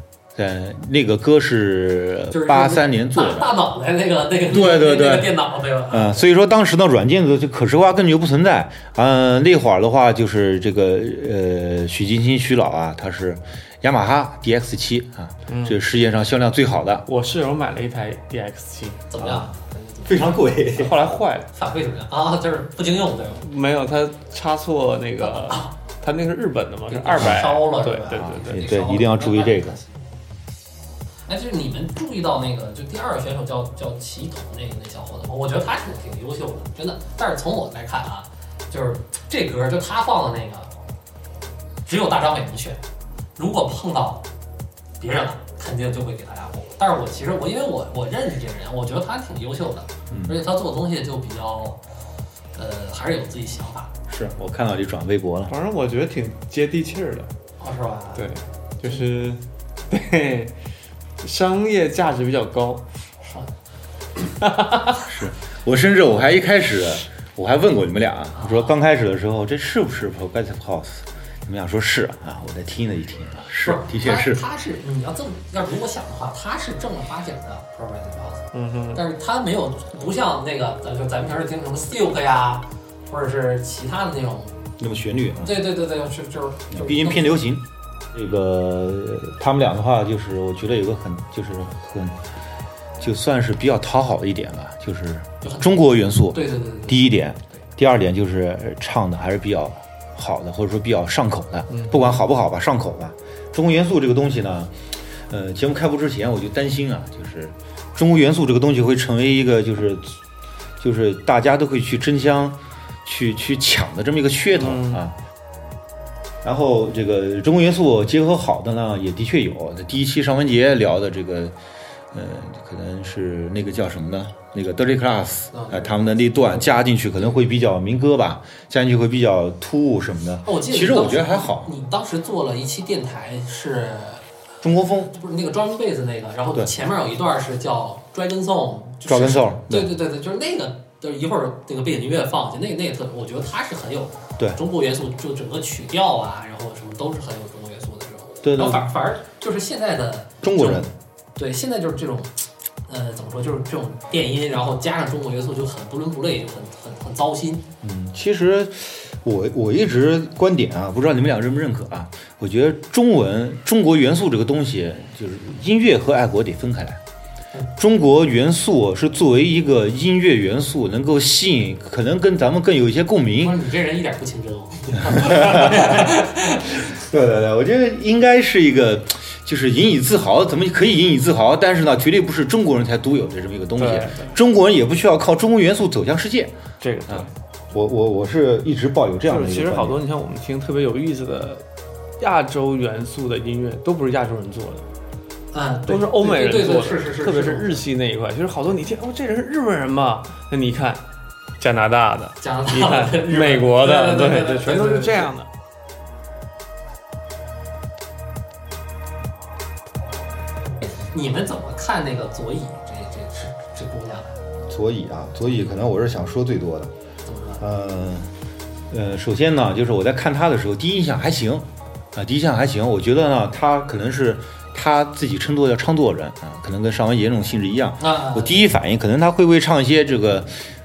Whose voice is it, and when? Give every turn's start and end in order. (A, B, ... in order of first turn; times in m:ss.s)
0:00.4-0:03.5 A
0:02.3-0:06.3 B
0:04.5-0:05.3 A
0:05.9-0:17.0 A
0:15.5-0:15.8 C
0:17.1-0:19.0 C
0:19.1-0:20.4 B
0:19.2-0:19.5 A
0:20.0-0:21.0 A
0:20.7-0:21.5 C
0:21.5-0:23.4 B
0:23.4-0:28.6 C
0:25.2-0:25.7 B
0:26.9-0:30.0 B
0:28.2-0:29.8 A
0:31.3-0:40.7 B
0:41.8-0:42.8 B
0:43.4-0:44.2 B
0:45.0-0:51.8 B
0:50.1-0:50.4 A
0:52.5-0:53.9 B
0:54.1-0:55.5 A
0:55.5-0:57.3 C
0:57.6-0:58.3 B
0:58.1-1:00.5 C
1:01.2-1:02.8 C
1:03.2-1:03.5 B
1:04.4-1:05.0 C
1:05.0-1:14.4 A
1:08.3-1:08.7 B
1:13.6-1:24.6 B
1:18.5-1:19.0 C
1:24.8-1:25.6 A
1:25.4-1:27.4 B
1:26.7-1:32.2 A
1:33.0-1:44.7 A
1:35.4-1:37.6 B
1:41.7-1:42.0 C
1:45.3-1:50.2 A
1:50.8-1:55.2 A
1:54.5-1:55.0 C
1:56.4-2:01.5 A
2:02.1-2:11.7 A
2:05.5-2:06.0 B
2:10.4-2:14.3 B
2:14.6-2:15.1 A
2:15.1-2:37.7 B
2:19.0-2:19.9 A
2:28.4-2:28.9 A
2:30.4-2:30.9 A
2:37.8-2:47.0 A
2:47.7-2:53.6 A
2:53.4-2:56.8 B
2:55.0-3:06.6 A
3:03.8-3:04.4 C
3:06.8-3:07.3 C
3:07.1-3:10.0 A
3:09.2-3:11.6 C
3:12.2-3:14.8 C
3:15.5-3:17.8 B
3:15.9-3:21.0 C
3:21.6-3:25.5 C
3:22.4-3:25.3 B
3:31.1-3:34.4 B
3:34.7-3:36.9 A
3:37.2-3:37.6 B
3:37.6-3:38.3 A
3:38.9-3:50.7 A
3:48.0-3:48.7 B